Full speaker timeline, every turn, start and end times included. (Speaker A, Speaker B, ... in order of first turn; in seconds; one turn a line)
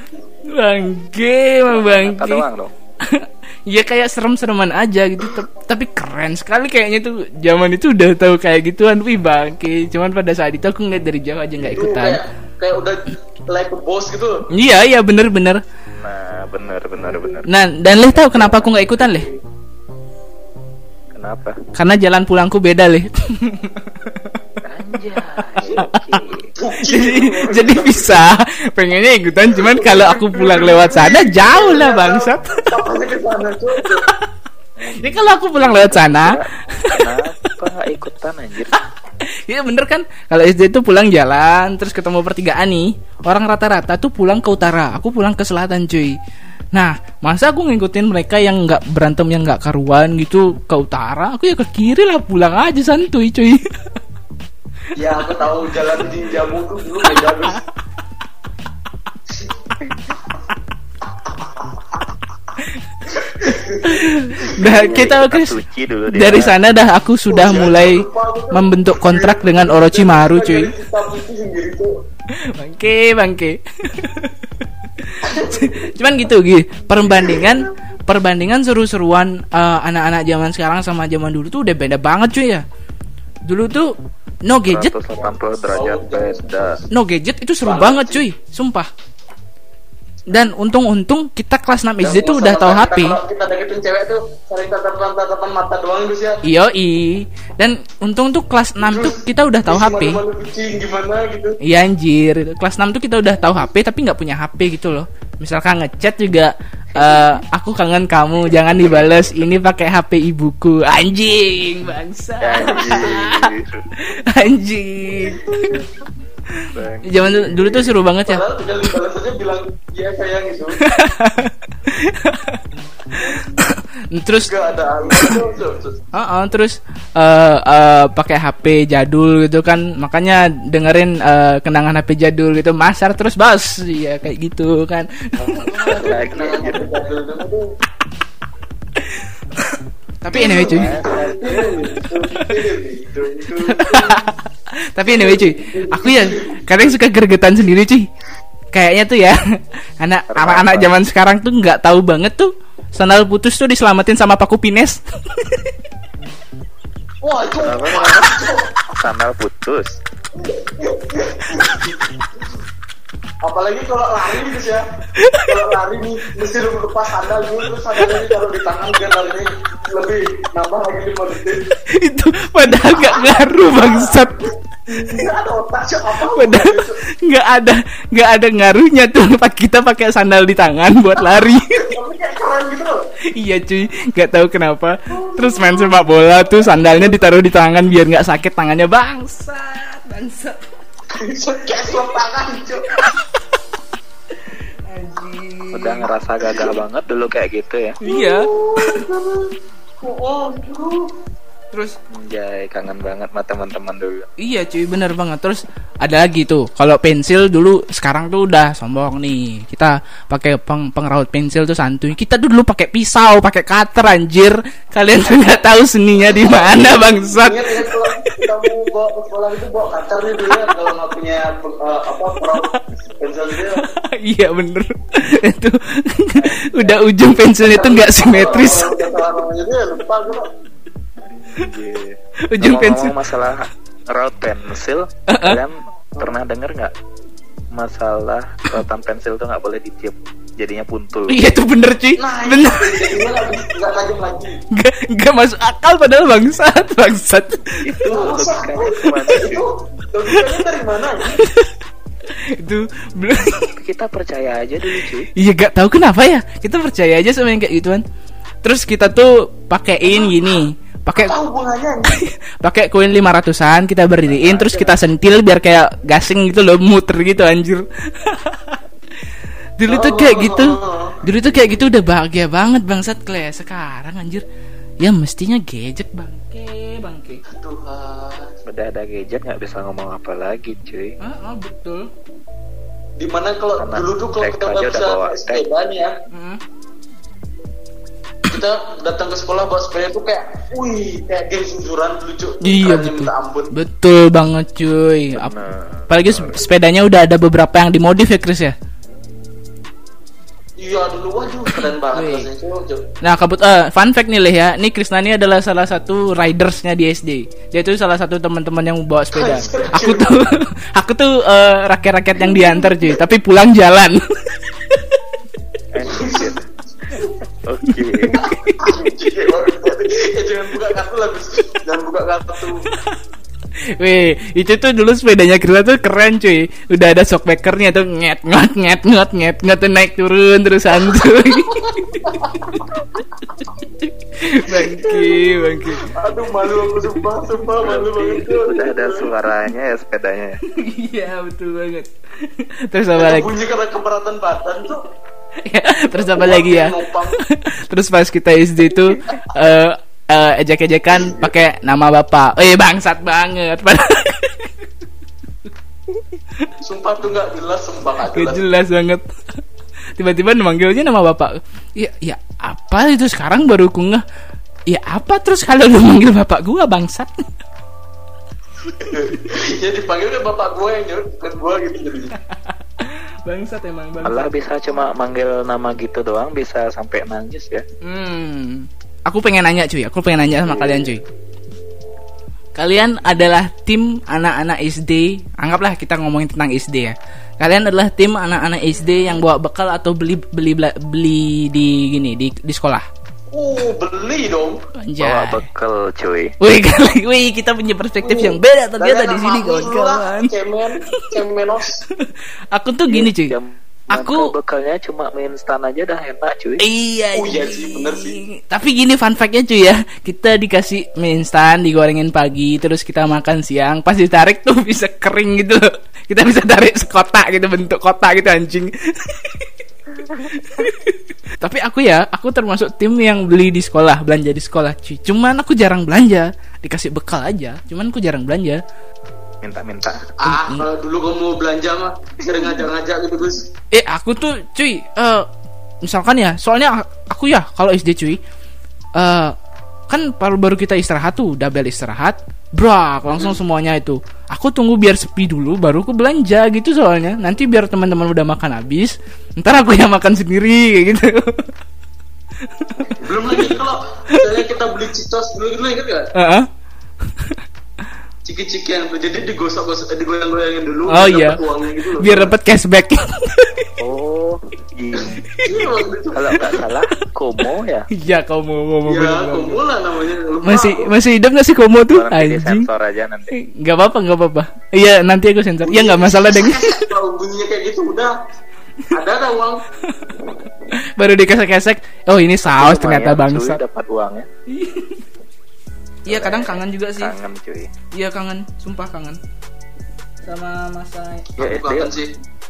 Speaker A: 0.5-2.5
Speaker B: 1.6-2.7
Speaker A: 3.0-12.2
Speaker C: 11.7-14.4
Speaker A: 14.5-15.6
Speaker B: 16.0-17.4
Speaker A: 17.4-19.3
Speaker B: 18.0-19.1
Speaker B: 21.1-21.6
Speaker A: 21.7-24.2
Speaker B: 24.6-26.4
Speaker A: 25.3-26.2
Speaker C: 26.5-28.2
Speaker A: 26.9-32.6
Speaker C: 29.5-34.1
Speaker B: 34.8-38.7
Speaker A: 35.0-37.1
Speaker A: 39.5-46.1
Speaker A: 46.7-53.7
Speaker C: 55.0-57.6
Speaker C: 63.1-64.1
Speaker A: 63.8-65.5
Speaker B: 64.6-66.6
Speaker C: 64.7-64.9
Speaker A: 66.1-70.7
Speaker C: 67.3-71.9
Speaker A: 72.5-74.5
Speaker A: 75.0-82.6
Speaker C: 75.2-75.8
Speaker A: 83.5-83.9
Speaker A: 84.4-84.9
Speaker B: 84.6-86.8
Speaker C: 85.7-86.8
Speaker A: 86.9-88.9
Speaker C: 87.6-88.2
Speaker A: 90.3-93.2
Speaker C: 92.0-96.4
Speaker A: 96.4-100.2
Speaker C: 98.8-101.6
Speaker A: 101.6-113.5
Speaker B: 106.9-107.4
Speaker B: 108.4-109.4
Speaker B: 112.4-113.9
Speaker A: 114.0-115.8
Speaker C: 115.2-115.8
Speaker B: 116.7-117.7
Speaker A: 117.0-118.4
Speaker C: 118.3-120.9
Speaker A: 120.8-122.6
Speaker A: 123.3-124.5
Speaker C: 124.4-126.0
Speaker A: 126.1-136.1
Speaker B: 135.4-136.9
Speaker C: 136.0-137.6
Speaker A: 140.2-141.0
Speaker B: 140.3-141.7
Speaker C: 140.3-144.2
Speaker A: 142.1-142.5
Speaker A: 143.7-148.1
Speaker C: 145.1-146.9
Speaker A: 148.7-155.6
Speaker B: 150.3-150.9
Speaker C: 157.2-158.7
Speaker B: 157.6-158.4
Speaker B: 158.9-160.0
Speaker C: 160.4-162.1
Speaker C: 163.4-164.8
Speaker A: 165.2-165.5
Speaker C: 165.4-171.7
Speaker A: 171.9-174.3
Speaker C: 172.6-177.0
Speaker A: 176.4-181.9
Speaker C: 181.3-183.1
Speaker A: 183.3-190.6
Speaker C: 185.1-187.2
Speaker C: 191.1-192.9
Speaker A: 194.9-196.1
Speaker B: 195.7-198.0
Speaker A: 198.0-199.0
Speaker C: 198.1-201.1
Speaker B: 202.1-204.3
Speaker A: 204.4-218.4
Speaker C: 216.3-223.8
Speaker A: 223.8-228.9
Speaker C: 227.6-230.5
Speaker B: 231.2-236.9
Speaker A: 232.5-233.2
Speaker A: 235.3-235.6
Speaker B: 237.7-241.4
Speaker A: 241.3-243.2
Speaker C: 242.2-244.6
Speaker A: 244.7-247.9
Speaker B: 247.8-249.6
Speaker C: 248.1-251.4
Speaker A: 251.4-251.7
Speaker A: 252.6-253.8
Speaker B: 253.8-255.3
Speaker A: 255.3-258.0
Speaker A: 258.6-261.3
Speaker C: 260.1-260.6
Speaker C: 261.1-262.2
Speaker A: 262.1-268.8
Speaker B: 264.3-264.9
Speaker A: 269.8-274.4
Speaker C: 269.9-271.2
Speaker B: 271.3-271.8
Speaker A: 275.0-277.4
Speaker C: 277.5-278.5
Speaker B: 278.6-281.1
Speaker A: 281.2-282.1
Speaker C: 283.2-286.1
Speaker B: 283.8-285.6
Speaker A: 286.3-286.6
Speaker C: 288.5-293.7
Speaker A: 292.6-295.6
Speaker B: 295.3-296.6
Speaker A: 296.1-298.7
Speaker C: 300.8-303.1
Speaker A: 302.1-302.5
Speaker A: 303.2-314.6
Speaker C: 309.3-310.5
Speaker C: 312.4-313.1
Speaker B: 315.9-316.6
Speaker C: 316.1-316.6
Speaker B: 317.6-318.4
Speaker A: 318.1-319.1
Speaker C: 318.3-322.8
Speaker A: 322.9-323.1
Speaker A: 324.0-332.8
Speaker A: 334.0-336.1
Speaker C: 334.7-335.5
Speaker C: 336.0-339.3
Speaker B: 337.8-340.6
Speaker A: 340.7-343.5
Speaker C: 343.2-345.0
Speaker A: 345.6-354.7
Speaker C: 346.2-347.4
Speaker B: 351.1-351.5
Speaker C: 356.8-358.6
Speaker A: 358.3-359.3
Speaker A: 360.1-364.2
Speaker A: 364.9-367.5
Speaker C: 368.9-372.3
Speaker A: 372.5-374.5
Speaker B: 374.2-377.8
Speaker A: 378.0-381.2
Speaker B: 380.6-381.1
Speaker A: 382.8-393.1
Speaker B: 389.0-389.4
Speaker C: 393.5-394.8
Speaker A: 395.0-395.6
Speaker B: 395.2-396.5
Speaker A: 396.6-400.5
Speaker C: 398.2-402.0
Speaker A: 402.2-403.5
Speaker B: 403.1-406.8
Speaker A: 404.1-404.5
Speaker A: 406.8-419.7
Speaker C: 407.4-408.4
Speaker A: 420.5-428.8
Speaker B: 429.6-430.3
Speaker C: 430.4-433.7
Speaker A: 430.4-430.8
Speaker A: 433.9-435.5
Speaker A: 436.0-438.4
Speaker A: 439.1-439.6
Speaker A: 440.1-451.7
Speaker A: 452.8-453.7
Speaker C: 453.2-456.3
Speaker A: 456.3-456.7
Speaker C: 458.4-462.5
Speaker A: 461.1-461.6
Speaker A: 462.2-463.9
Speaker B: 464.0-465.4
Speaker C: 465.2-466.6
Speaker B: 466.3-468.1
Speaker A: 468.1-469.8
Speaker C: 469.1-471.1
Speaker A: 470.6-472.9
Speaker B: 472.1-473.5
Speaker A: 473.6-477.1
Speaker C: 475.9-478.3
Speaker C: 479.1-479.8
Speaker A: 481.1-483.8
Speaker B: 482.6-484.5
Speaker A: 484.7-485.2
Speaker A: 486.3-487.3
Speaker B: 486.3-487.9
Speaker A: 488.1-489.4
Speaker A: 490.4-491.5
Speaker B: 491.6-492.1
Speaker C: 491.6-492.3